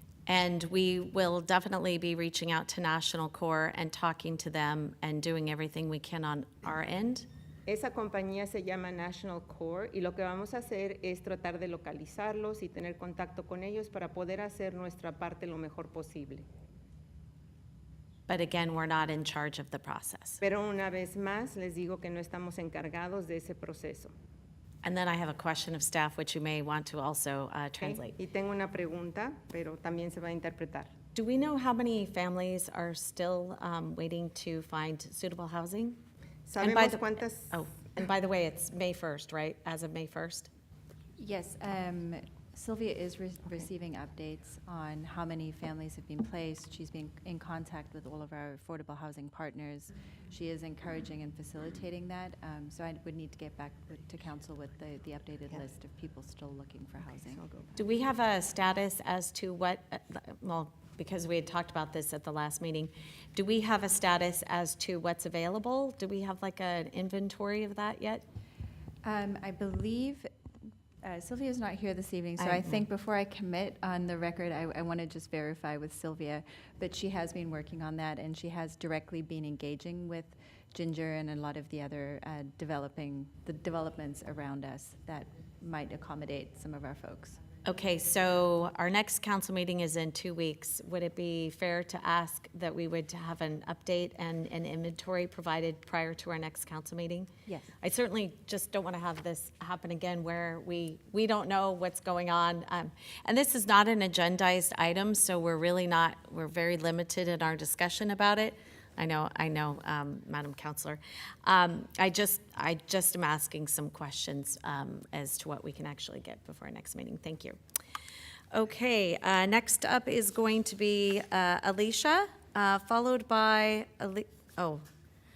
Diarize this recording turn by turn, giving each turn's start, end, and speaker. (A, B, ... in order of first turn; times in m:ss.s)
0:00.3-0:07.3 A
0:07.7-0:16.4 B
0:18.3-0:20.4 A
0:20.4-0:24.1 B
0:24.8-0:28.2 A
0:27.8-0:30.9 B
0:31.1-0:36.0 A
0:36.5-0:37.6 B
0:36.6-0:40.5 A
0:41.2-0:57.4 C
0:57.4-0:57.7 B
0:57.8-1:08.2 A
1:09.0-1:10.3 C
1:11.0-1:27.4 C
1:12.4-1:12.8 A
1:27.6-1:37.3 A
1:37.4-1:37.7 C
1:37.8-1:57.6 A
1:58.5-2:04.8 A